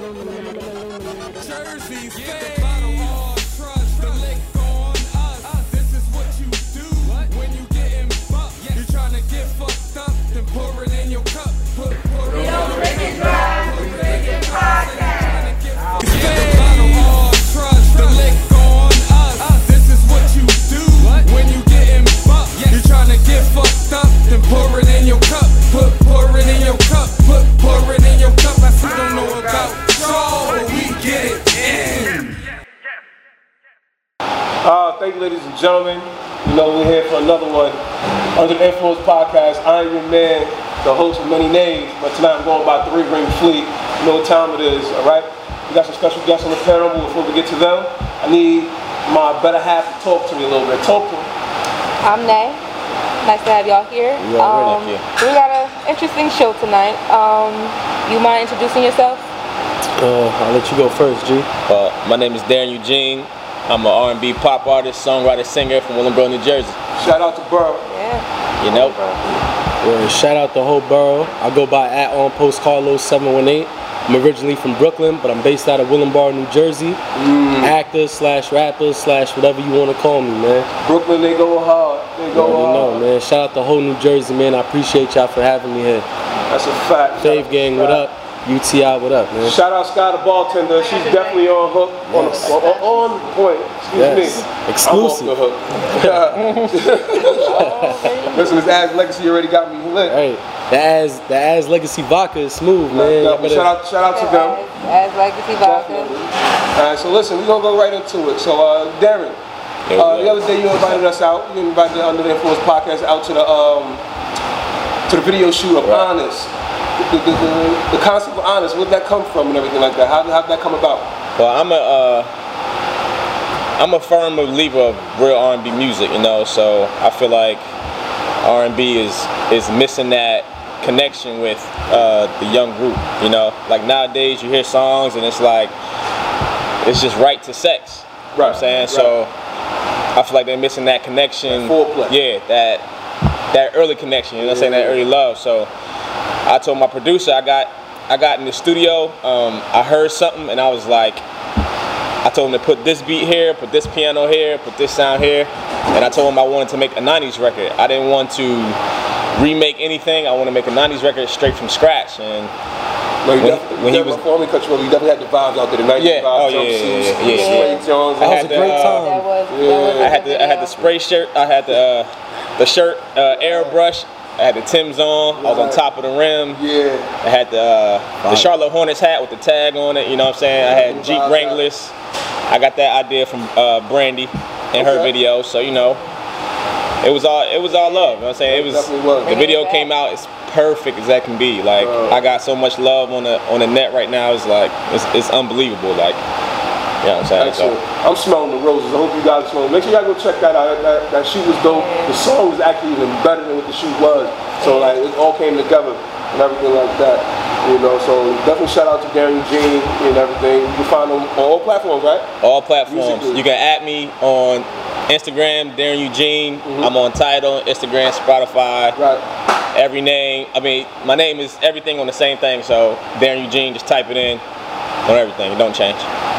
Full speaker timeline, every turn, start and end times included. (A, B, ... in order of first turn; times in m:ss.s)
0:00.2-0:00.6 A
0:01.3-0:32.4 A
0:34.6-0:37.8 B
0:38.3-0:51.3 B
0:52.0-0:52.6 C
0:53.2-0:59.3 C
0:54.2-0:54.8 D
0:54.4-0:55.0 E
1:00.0-1:01.5 D
1:01.7-1:06.8 E
1:07.0-1:07.8 B
1:07.9-1:08.2 C
1:08.6-1:09.0 E
1:09.8-1:17.0 D
1:17.1-1:17.7 B
1:17.6-1:20.7 D
1:20.8-1:23.0 B
1:22.3-1:26.1 D
1:26.5-1:28.0 B
1:27.2-1:29.6 D
1:29.4-1:37.6 B
1:32.1-1:32.6 D
1:33.9-1:35.3 D
1:35.9-1:36.4 D
1:36.3-1:36.8 E
1:37.2-1:38.6 C
1:37.4-1:38.2 D
1:38.3-1:40.2 B
1:40.0-1:43.7 D
1:42.9-1:44.6 B
1:44.1-1:46.1 C
1:45.6-1:49.4 B
1:49.9-1:51.0 E
1:50.0-1:54.0 B
1:55.1-2:01.1 B
1:55.8-1:56.1 E
2:01.4-2:02.3 E
2:03.8-2:07.6 E
2:08.4-2:15.7 E
2:16.8-2:19.3 E
2:18.3-2:19.1 B
2:20.1-2:22.8 E
2:21.5-2:22.1 B
2:23.5-2:25.7 E
2:24.4-2:25.0 B
2:26.4-2:31.2 E
2:32.2-2:38.8 E
2:39.3-2:42.5 E
2:43.2-2:48.8 B
2:43.4-2:44.2 E
2:46.0-2:49.0 E
2:47.2-2:47.8 C
2:48.2-2:49.3 D
2:48.9-2:50.9 C
2:49.5-2:50.2 B
2:50.0-2:56.6 E
2:53.3-2:53.8 B
2:55.4-2:55.8 B
2:56.5-2:57.1 B
2:57.2-3:01.9 E
2:58.2-2:58.5 D
3:00.6-3:01.6 B
3:02.5-3:06.0 E
3:04.8-3:05.1 B
3:07.0-3:16.2 E
3:07.7-3:08.2 C
3:08.5-3:09.3 B
3:09.2-3:09.9 C
3:11.8-3:12.2 B
3:17.0-3:17.7 E
3:17.4-3:32.3 B
3:21.7-3:22.2 C
3:24.6-3:25.0 C
3:32.4-3:39.0 E
3:32.9-3:33.4 B
3:36.6-3:36.9 B
3:39.0-3:39.2 B
3:39.7-3:44.4 E
3:45.0-3:46.0 E